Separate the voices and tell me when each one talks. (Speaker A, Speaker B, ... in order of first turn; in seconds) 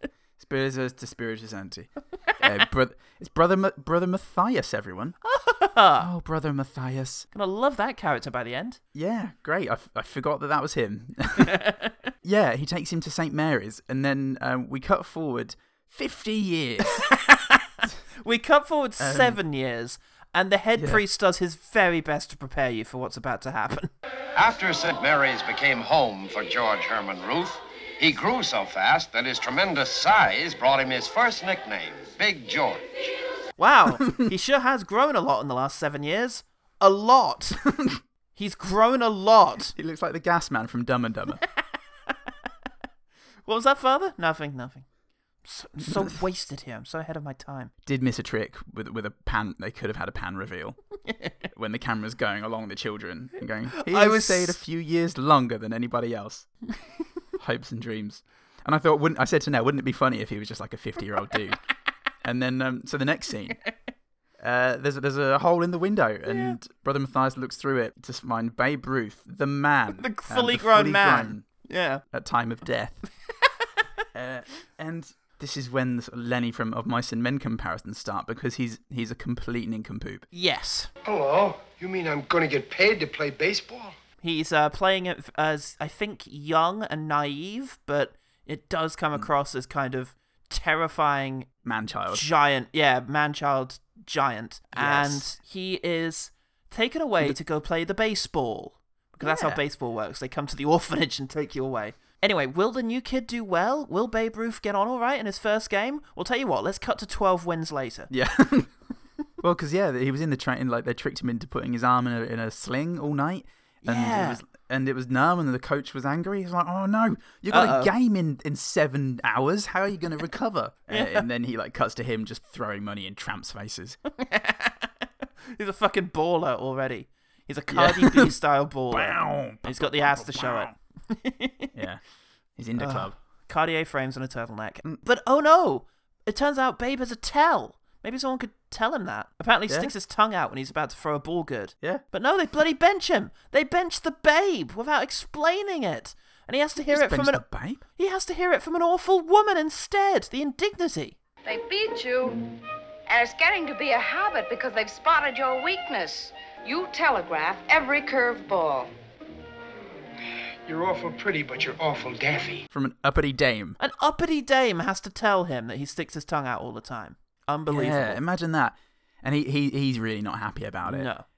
Speaker A: 0.4-5.2, 6.0-7.3, 8.9-11.6, 12.2-17.1, 19.0-19.4, 20.7-21.0, 39.8-41.4, 47.8-50.8, 51.5-56.5, 57.4-61.6, 62.2-63.6, 64.4-71.4, 72.1-73.0, 74.1-80.2, 91.6-92.2, 94.7-95.3, 99.2-99.6, 108.1-108.7, 109.4-124.0, 127.7-128.3, 128.9-130.7, 131.7-132.0, 132.6-133.1, 146.9-147.8, 162.7-163.8, 167.7-171.1
Speaker B: 5.2-6.1, 7.3-8.8, 11.4-11.9, 16.8-23.9, 33.6-37.6, 38.4-39.7, 43.5-44.9, 45.4-47.7, 53.7-54.6, 66.3-66.6, 70.0-72.0, 80.3-80.9, 84.2-91.5, 92.1-108.1, 113.8-114.4, 117.5-117.9, 120.9-121.3, 124.2-124.9, 125.5-131.7, 132.8-147.4, 147.9-151.2, 163.8-168.2, 170.8-171.2
Speaker C: 24.3-32.9
Speaker D: 81.0-84.0, 160.7-162.7
Speaker E: 151.4-152.4, 153.1-158.9